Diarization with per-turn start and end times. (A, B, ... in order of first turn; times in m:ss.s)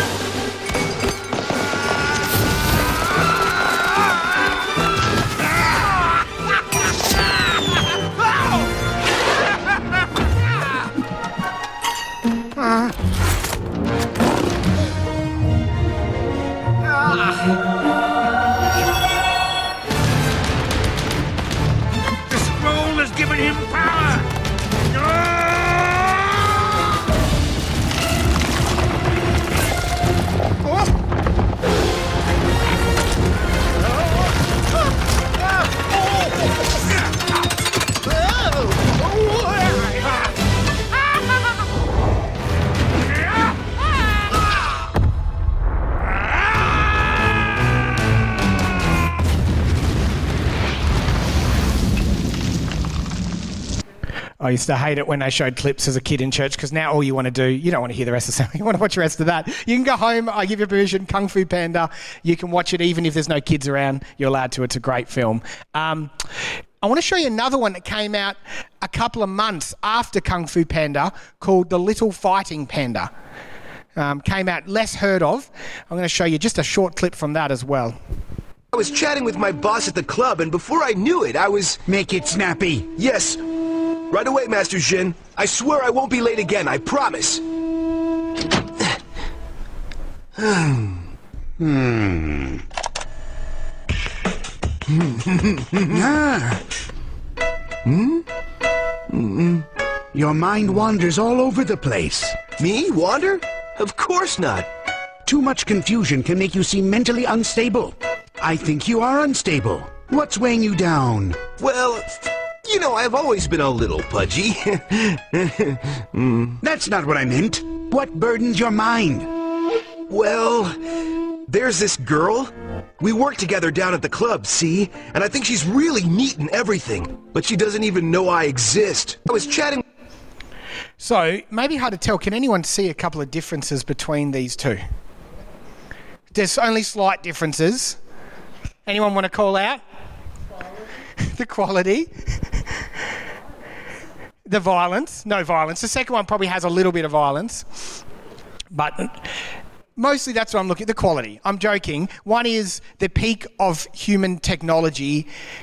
0:22.3-0:24.2 A
0:54.4-1:06.1 B
1:06.8-1:13.1 B
1:14.0-1:18.0 B
1:18.7-1:21.8 A
1:21.8-1:22.9 C
1:23.0-1:23.4 A
1:24.1-1:27.4 A
1:30.4-1:30.9 A
1:31.6-1:32.6 C
1:34.9-1:36.0 A
1:35.9-1:36.6 C
1:37.8-1:38.2 A
1:39.1-1:39.6 A
1:40.1-1:42.4 C
1:42.5-1:44.7 A
1:45.2-1:51.4 C
1:51.6-1:56.6 A
1:56.6-1:59.3 C
2:00.1-2:00.8 A
2:01.5-2:09.8 A
2:11.0-2:14.8 B
2:16.3-2:18.0 B
2:18.8-2:19.8 B
2:21.2-2:22.4 B
2:24.4-2:27.6 B
2:28.7-2:29.3 B
2:30.0-2:35.3 B